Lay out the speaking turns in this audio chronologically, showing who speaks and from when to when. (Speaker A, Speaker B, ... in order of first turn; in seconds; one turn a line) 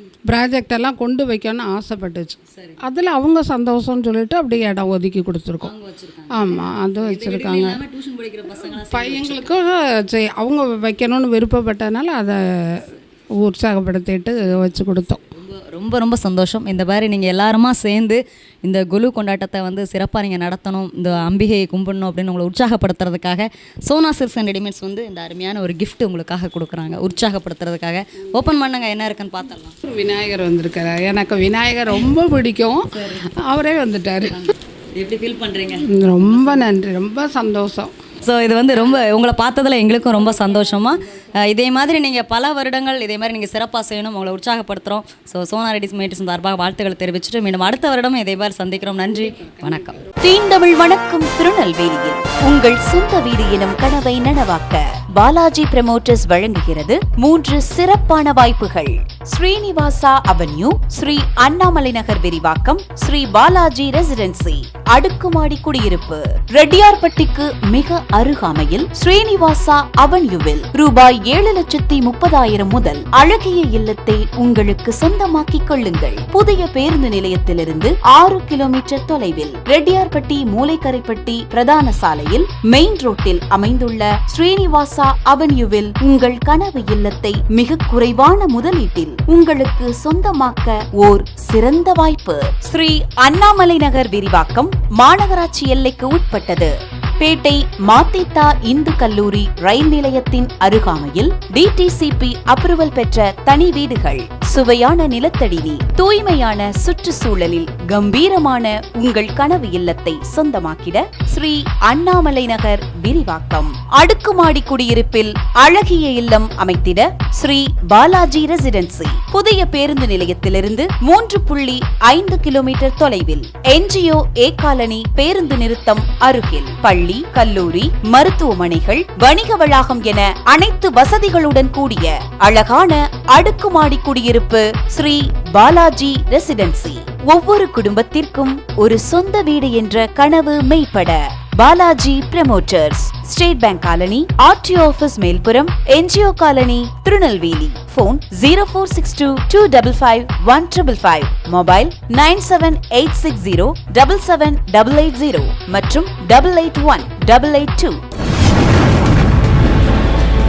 Speaker A: 0.3-5.7
Speaker B: 2.5-2.8
Speaker B: 5.6-9.5
Speaker A: 6.3-7.8
Speaker A: 8.7-12.9
Speaker A: 13.4-15.2
Speaker B: 15.3-29.8
Speaker A: 29.8-34.5
Speaker B: 34.3-36.7
Speaker A: 35.9-37.9
Speaker B: 38.2-50.0
Speaker C: 50.2-158.0